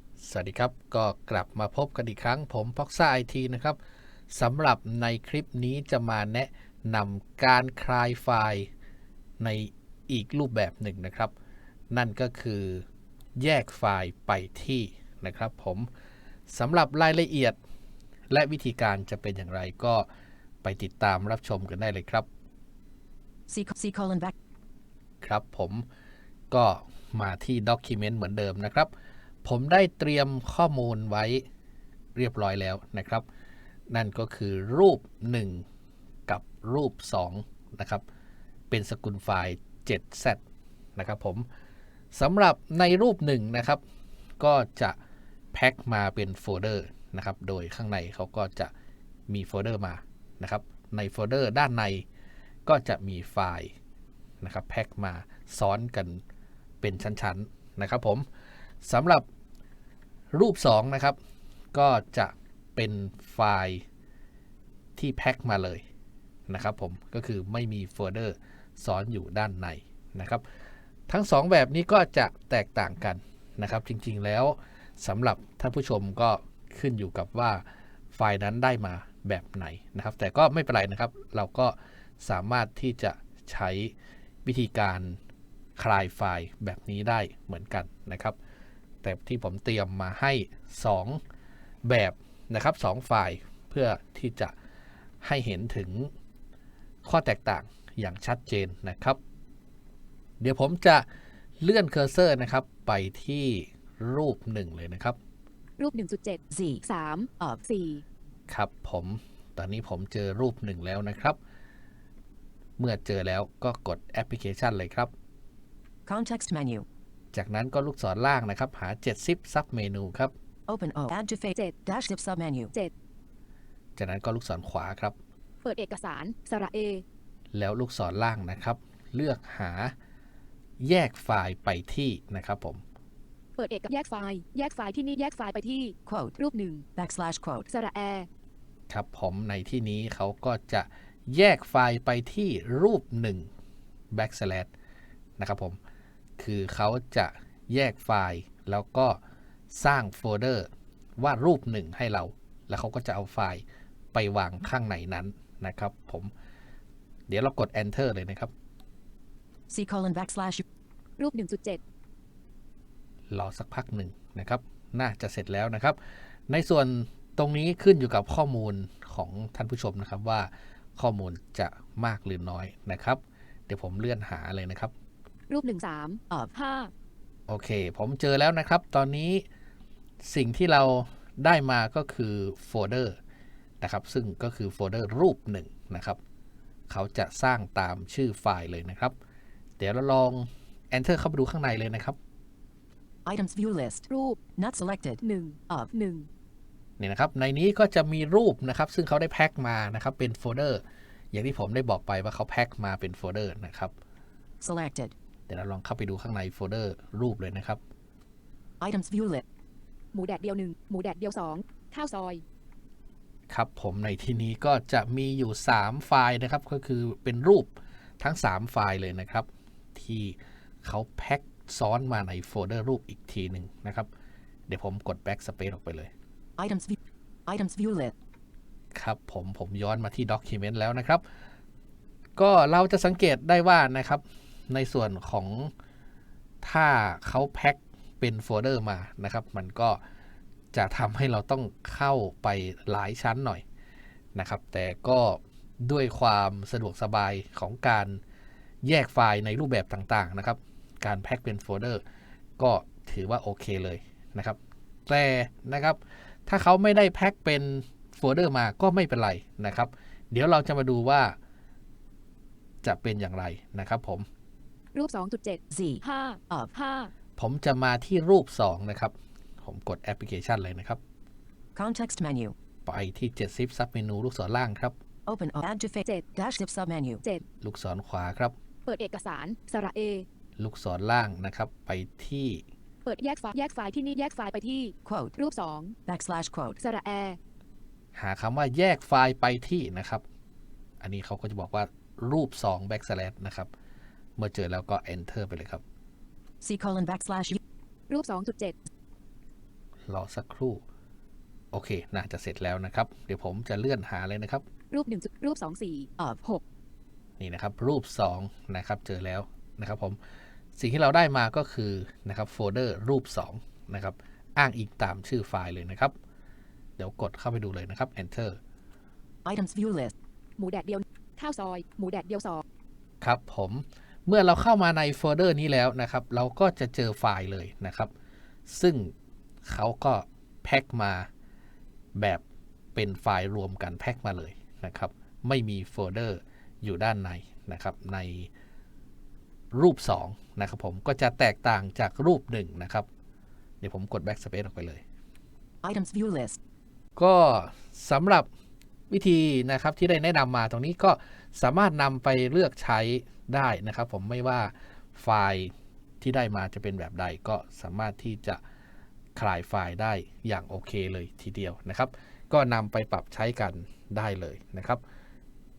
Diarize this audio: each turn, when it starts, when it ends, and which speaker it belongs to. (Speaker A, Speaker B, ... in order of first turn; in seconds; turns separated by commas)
Speaker A: 0.2-3.8, Speaker A: 4.3-8.7, Speaker A: 9.4-11.3, Speaker A: 11.9-12.8, Speaker A: 13.4-15.9, Speaker A: 16.5-17.6, Speaker A: 18.3-20.1, Speaker A: 20.6-22.3, Speaker B: 23.5-24.3, Speaker A: 25.2-25.9, Speaker A: 26.5-28.9, Speaker A: 29.4-31.4, Speaker A: 32.1-33.2, Speaker A: 33.9-35.6, Speaker A: 36.3-38.0, Speaker A: 38.7-40.4, Speaker A: 41.0-41.5, Speaker A: 42.1-43.8, Speaker A: 44.4-45.0, Speaker A: 45.5-48.7, Speaker A: 49.3-52.0, Speaker A: 52.6-53.7, Speaker A: 54.4-56.2, Speaker A: 56.8-58.2, Speaker A: 58.8-59.2, Speaker A: 60.3-61.2, Speaker A: 61.7-63.8, Speaker A: 65.0-65.8, Speaker A: 66.5-70.4, Speaker A: 71.1-85.2, Speaker A: 85.8-88.3, Speaker A: 89.0-91.2, Speaker A: 91.8-94.5, Speaker A: 95.2-96.1, Speaker A: 97.0-99.2, Speaker A: 100.4-101.0, Speaker A: 101.6-105.2, Speaker C: 105.8-108.0, Speaker B: 106.5-106.8, Speaker A: 108.5-111.4, Speaker A: 112.8-115.1, Speaker B: 116.1-116.8, Speaker A: 117.3-120.3, Speaker B: 120.7-122.7, Speaker A: 124.0-125.1, Speaker C: 125.6-127.0, Speaker A: 127.5-129.9, Speaker A: 130.8-132.8, Speaker C: 133.6-136.8, Speaker B: 136.1-136.3, Speaker B: 137.0-137.6, Speaker C: 137.7-138.3, Speaker A: 138.9-143.5, Speaker A: 144.1-144.7, Speaker A: 145.4-145.8, Speaker A: 146.4-149.2, Speaker A: 149.7-156.3, Speaker A: 157.3-158.5, Speaker B: 159.7-160.6, Speaker C: 161.2-161.8, Speaker A: 163.3-174.9, Speaker C: 175.5-176.9, Speaker A: 177.5-179.4, Speaker A: 180.2-183.2, Speaker A: 183.8-186.2, Speaker A: 186.9-189.1, Speaker A: 189.8-192.2, Speaker B: 193.2-194.0, Speaker C: 194.1-194.4, Speaker B: 194.6-195.9, Speaker C: 195.2-196.3, Speaker A: 197.0-203.9, Speaker B: 204.6-205.1, Speaker A: 205.5-207.8, Speaker B: 208.8-209.4, Speaker C: 210.1-212.4, Speaker A: 213.5-224.1, Speaker A: 224.7-226.1, Speaker B: 226.6-228.1, Speaker A: 228.9-231.2, Speaker A: 232.4-235.7, Speaker A: 236.6-240.0, Speaker A: 240.7-243.6, Speaker A: 244.3-248.2, Speaker A: 248.8-252.0, Speaker A: 252.6-261.4, Speaker A: 262.8-264.3, Speaker C: 264.9-267.1, Speaker B: 265.7-266.7, Speaker A: 267.4-271.0, Speaker B: 271.8-272.5, Speaker A: 272.9-275.0, Speaker B: 275.2-277.2, Speaker A: 277.6-278.5, Speaker C: 278.9-280.2, Speaker A: 280.6-282.6, Speaker C: 283.0-285.9, Speaker B: 285.1-285.4, Speaker B: 286.1-286.8, Speaker C: 286.8-287.4, Speaker A: 288.1-290.2, Speaker A: 291.0-293.7, Speaker A: 294.4-295.8, Speaker B: 296.6-297.6, Speaker C: 298.1-298.8, Speaker A: 300.1-300.8, Speaker A: 301.7-304.6, Speaker C: 304.9-306.6, Speaker A: 307.4-310.2, Speaker A: 310.8-316.1, Speaker A: 317.0-318.6, Speaker B: 319.4-320.1, Speaker C: 320.6-322.6, Speaker A: 323.2-328.1, Speaker A: 328.7-329.1, Speaker A: 329.6-331.3, Speaker A: 332.1-332.4, Speaker A: 332.9-338.5, Speaker A: 339.7-343.1, Speaker A: 343.8-345.0, Speaker B: 345.8-346.6, Speaker A: 347.1-348.5, Speaker A: 349.1-358.6, Speaker A: 359.4-365.0